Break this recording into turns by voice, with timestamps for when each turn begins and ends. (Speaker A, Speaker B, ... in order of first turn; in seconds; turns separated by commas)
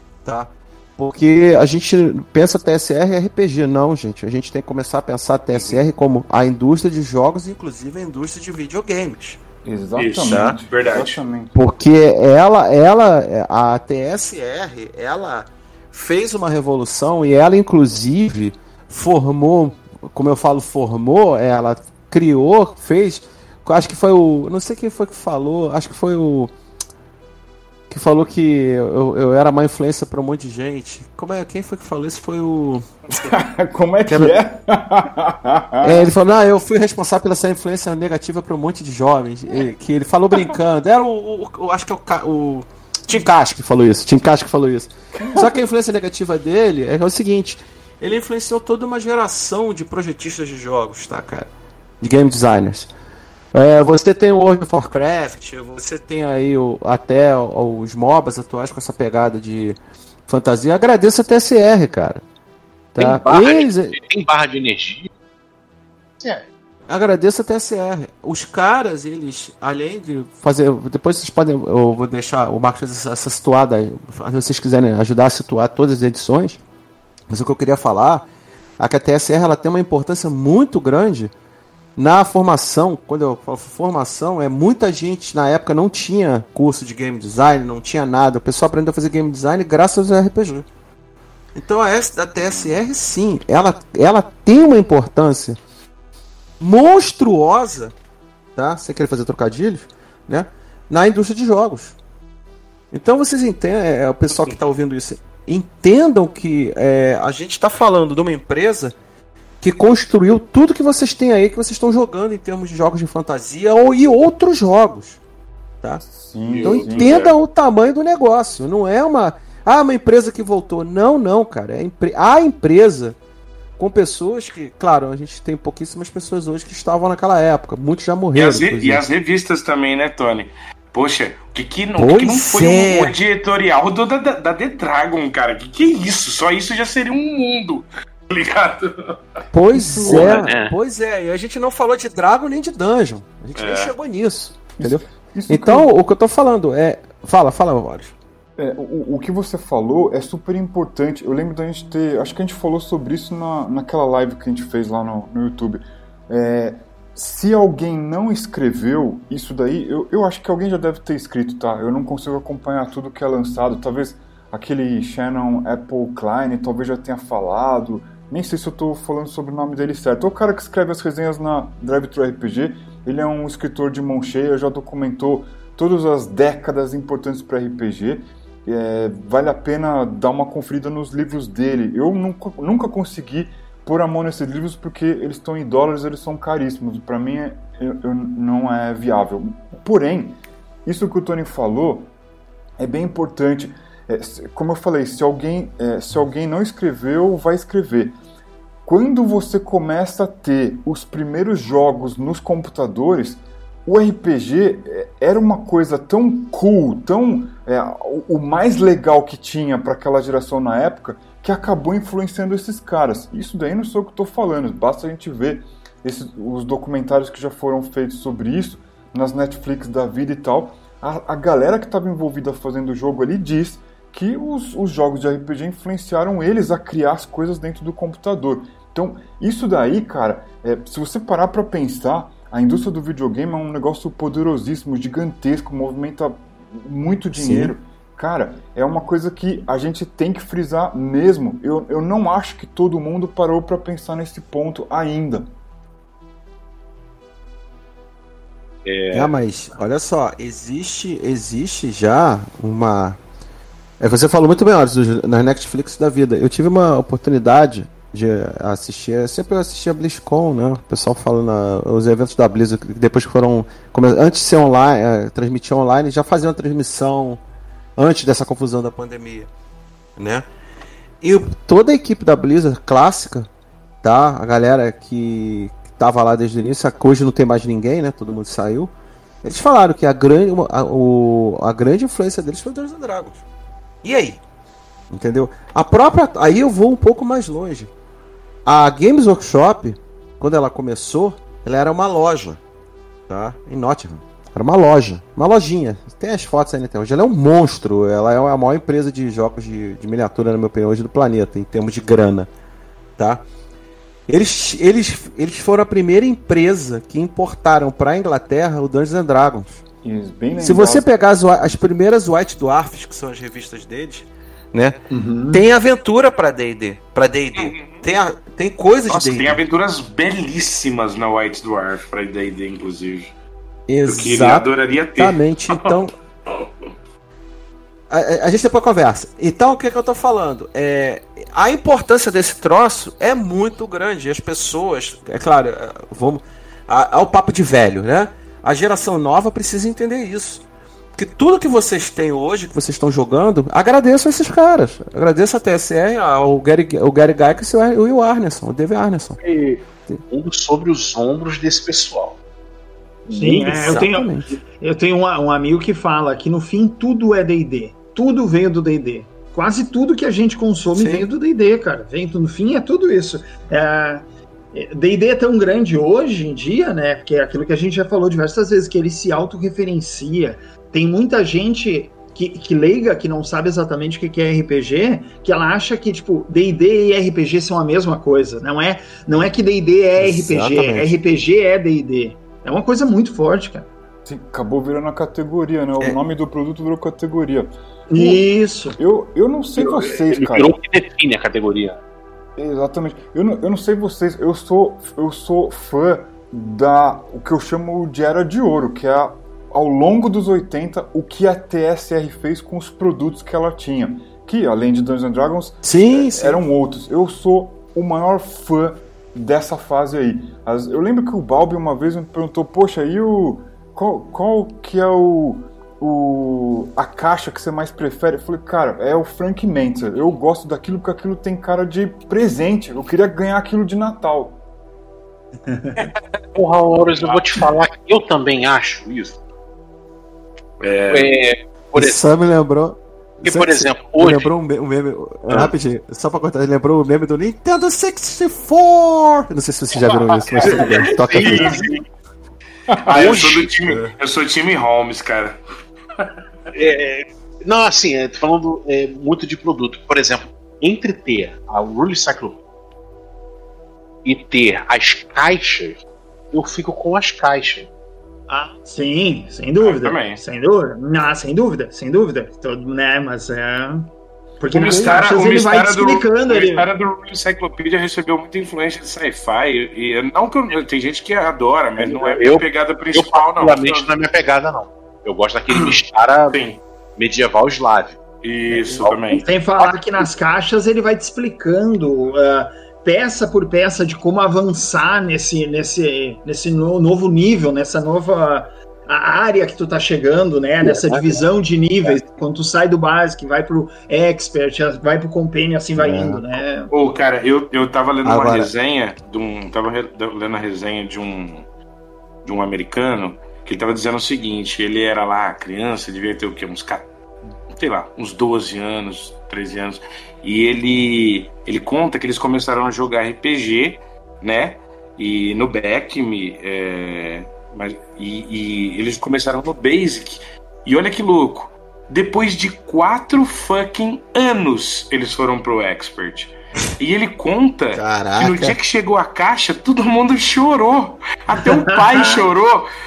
Speaker A: 0.2-9.4, Speaker B: 9.6-11.5, Speaker C: 10.0-11.2, Speaker A: 10.2-10.6, Speaker A: 11.5-26.5, Speaker A: 27.9-32.9, Speaker B: 33.2-36.1, Speaker A: 34.1-34.4, Speaker A: 35.8-52.9, Speaker B: 45.1-45.6, Speaker A: 53.5-59.8, Speaker A: 60.3-62.2, Speaker A: 62.9-64.0, Speaker D: 63.0-65.1, Speaker D: 66.2-66.5, Speaker A: 66.9-76.6, Speaker A: 77.3-78.2, Speaker A: 78.8-81.3, Speaker A: 82.0-90.7, Speaker A: 91.5-95.6, Speaker C: 92.4-92.8, Speaker A: 96.6-97.9, Speaker A: 98.5-102.0, Speaker A: 102.9-108.9, Speaker A: 109.6-115.2, Speaker B: 116.0-117.2, Speaker D: 116.5-117.3, Speaker A: 116.6-123.2, Speaker A: 123.8-129.0, Speaker C: 128.3-139.1, Speaker A: 131.9-133.2, Speaker A: 139.5-148.1, Speaker B: 139.7-140.4, Speaker D: 140.0-140.7, Speaker C: 143.6-143.9, Speaker B: 144.8-145.9, Speaker B: 148.6-192.1, Speaker B: 192.8-198.2, Speaker B: 198.8-245.5, Speaker A: 237.3-237.7, Speaker D: 248.8-249.3, Speaker A: 249.1-253.2, Speaker A: 254.0-267.4, Speaker A: 268.0-269.5, Speaker A: 270.2-270.4, Speaker A: 271.2-273.5, Speaker A: 274.0-278.9, Speaker A: 279.4-283.4, Speaker A: 284.0-284.4, Speaker A: 285.1-287.9, Speaker A: 288.6-292.6, Speaker A: 293.3-302.5, Speaker A: 303.2-303.4, Speaker A: 304.3-309.8, Speaker B: 310.0-311.1, Speaker A: 310.6-314.9, Speaker E: 315.1-315.6, Speaker A: 315.5-319.6, Speaker C: 317.6-318.1, Speaker C: 319.1-323.3, Speaker A: 323.9-326.1, Speaker C: 324.1-326.7, Speaker A: 328.1-340.6, Speaker A: 341.1-349.4, Speaker D: 349.4-352.4, Speaker E: 353.3-383.9, Speaker D: 353.3-354.1, Speaker A: 353.4-354.5, Speaker A: 360.9-361.3, Speaker A: 380.2-381.1, Speaker B: 384.2-388.4, Speaker E: 388.1-389.0, Speaker B: 389.0-390.8, Speaker D: 389.8-392.0, Speaker B: 392.6-424.6, Speaker A: 405.8-406.6, Speaker E: 425.7-426.1, Speaker D: 426.6-429.4, Speaker C: 427.1-427.6, Speaker C: 430.8-431.3, Speaker D: 431.1-432.2, Speaker A: 431.9-441.8, Speaker D: 433.4-434.5, Speaker D: 440.4-442.0, Speaker C: 440.5-442.0, Speaker C: 443.0-445.6, Speaker D: 443.1-443.7, Speaker A: 443.8-444.1, Speaker D: 446.7-452.6, Speaker D: 454.2-457.9, Speaker E: 458.5-464.1, Speaker C: 459.8-460.4, Speaker E: 464.6-466.9, Speaker C: 464.7-474.1, Speaker D: 472.0-476.6, Speaker C: 476.5-476.8, Speaker D: 477.2-478.2, Speaker C: 478.4-479.4, Speaker D: 478.7-479.2, Speaker E: 479.3-496.9, Speaker D: 479.8-480.2, Speaker D: 490.8-491.4, Speaker A: 495.9-496.6, Speaker C: 496.9-501.6, Speaker A: 498.2-498.7, Speaker C: 502.4-507.1, Speaker C: 507.7-532.9, Speaker A: 527.9-528.8, Speaker E: 531.7-532.4